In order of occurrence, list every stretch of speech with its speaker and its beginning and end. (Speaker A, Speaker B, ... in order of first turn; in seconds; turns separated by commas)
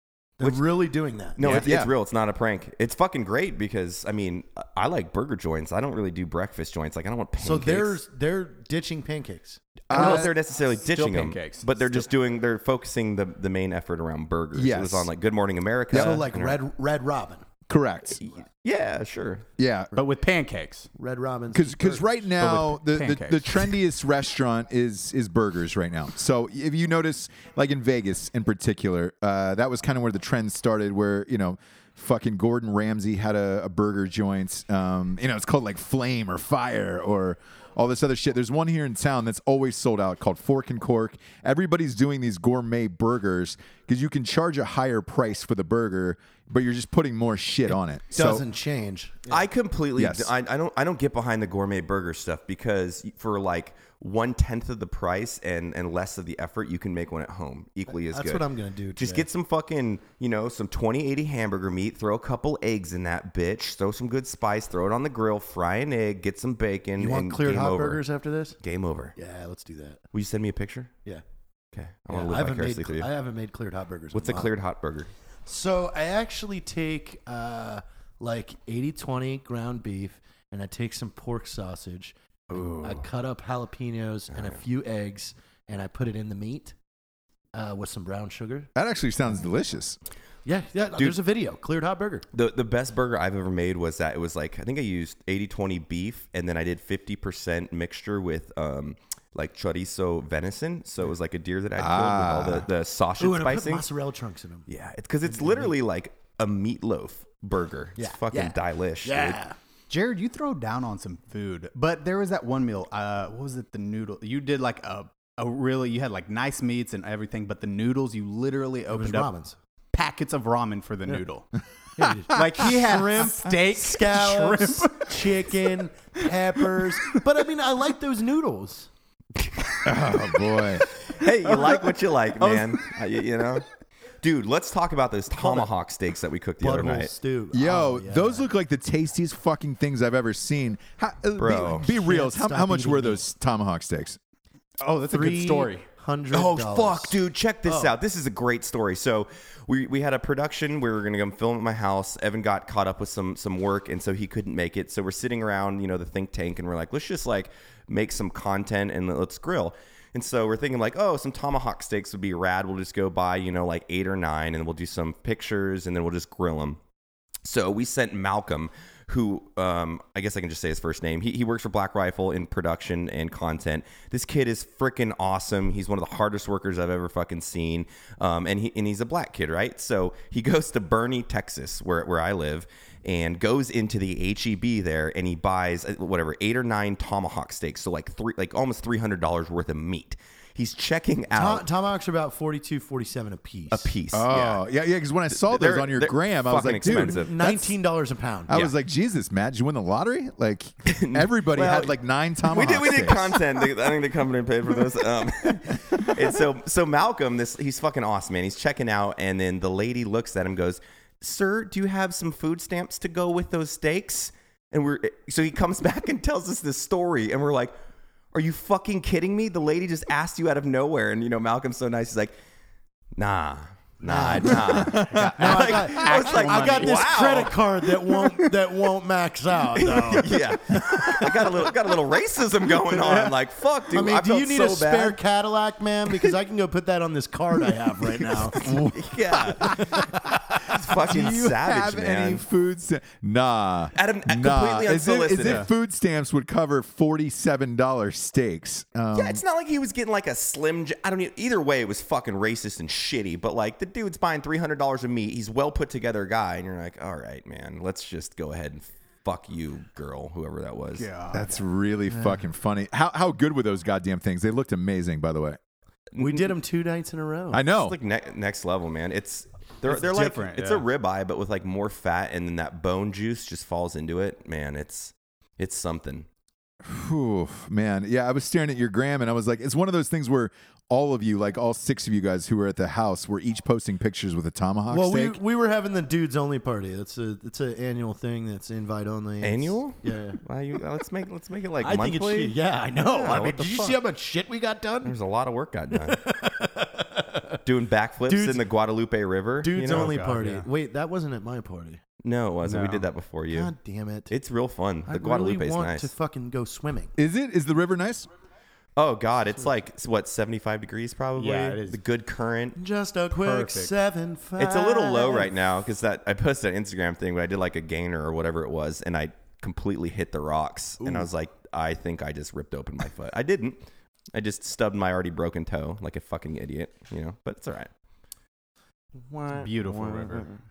Speaker A: 0.4-1.4, Speaker B: 1.4-8.0, Speaker C: 1.4-1.9, Speaker A: 7.4-9.6, Speaker C: 9.9-10.3, Speaker B: 9.9-16.6, Speaker D: 9.9-10.3, Speaker D: 10.8-12.1, Speaker C: 14.5-15.1, Speaker C: 15.9-16.2, Speaker A: 15.9-17.4, Speaker C: 17.7-18.2, Speaker B: 18.2-19.4, Speaker C: 19.6-19.9, Speaker D: 19.9-20.9, Speaker A: 20.9-22.2, Speaker C: 21.5-48.4, Speaker D: 22.4-23.8, Speaker A: 48.1-49.4, Speaker B: 49.3-58.4, Speaker C: 50.0-50.3, Speaker A: 57.9-59.2, Speaker B: 59.0-68.0, Speaker A: 67.0-68.6, Speaker B: 68.6-69.1, Speaker A: 69.2-70.0, Speaker B: 70.1-70.9, Speaker B: 71.7-73.1, Speaker A: 72.1-74.5, Speaker B: 74.1-75.1, Speaker A: 75.5-86.7, Speaker A: 87.5-88.7, Speaker C: 88.8-90.0, Speaker A: 90.5-92.2, Speaker B: 92.3-103.8, Speaker C: 101.8-102.7, Speaker A: 103.2-104.7, Speaker B: 104.7-109.4, Speaker A: 105.3-105.7, Speaker A: 108.0-109.5, Speaker D: 109.9-119.3, Speaker A: 118.9-119.5, Speaker D: 119.9-121.5, Speaker A: 122.0-128.9, Speaker D: 122.3-125.5, Speaker C: 129.8-130.8, Speaker B: 131.1-133.7, Speaker D: 131.2-132.8, Speaker B: 134.2-137.1, Speaker A: 136.6-138.4, Speaker C: 137.5-144.2, Speaker B: 141.4-142.0, Speaker A: 141.9-143.2, Speaker D: 144.8-145.8, Speaker A: 145.1-147.9, Speaker B: 146.3-166.8, Speaker B: 167.4-191.7, Speaker A: 191.3-193.9, Speaker B: 193.7-194.6, Speaker C: 194.1-197.7, Speaker B: 195.3-197.3, Speaker A: 196.9-198.5, Speaker C: 198.5-203.4, Speaker B: 200.8-217.7, Speaker B: 218.3-222.3, Speaker B: 223.2-227.6, Speaker A: 224.0-231.6, Speaker C: 224.6-225.3, Speaker D: 225.0-227.1, Speaker B: 229.7-235.2, Speaker A: 233.9-238.7, Speaker B: 238.2-242.4, Speaker C: 238.6-239.0, Speaker A: 239.4-240.4, Speaker C: 240.9-249.4, Speaker B: 243.9-245.7, Speaker D: 245.4-245.7, Speaker B: 249.1-261.1, Speaker D: 260.9-261.5, Speaker C: 261.3-265.6, Speaker B: 266.1-266.5, Speaker A: 266.2-267.6, Speaker C: 267.5-268.0, Speaker B: 267.7-276.2, Speaker D: 269.8-270.8, Speaker C: 276.8-285.4, Speaker A: 284.9-290.4, Speaker B: 289.4-294.0, Speaker A: 291.8-295.1, Speaker B: 295.0-296.2, Speaker A: 296.0-297.6, Speaker B: 297.6-300.2, Speaker A: 298.3-298.6, Speaker A: 299.6-302.0, Speaker D: 299.8-300.7, Speaker B: 302.2-303.7, Speaker D: 302.6-303.1, Speaker A: 303.5-304.3, Speaker B: 304.3-306.1, Speaker A: 305.1-307.1, Speaker C: 307.2-308.3, Speaker B: 309.0-312.8, Speaker D: 311.4-312.0, Speaker A: 312.8-315.5, Speaker D: 313.3-313.9, Speaker B: 314.6-323.8, Speaker B: 324.3-327.9, Speaker B: 329.3-330.5, Speaker D: 329.5-330.5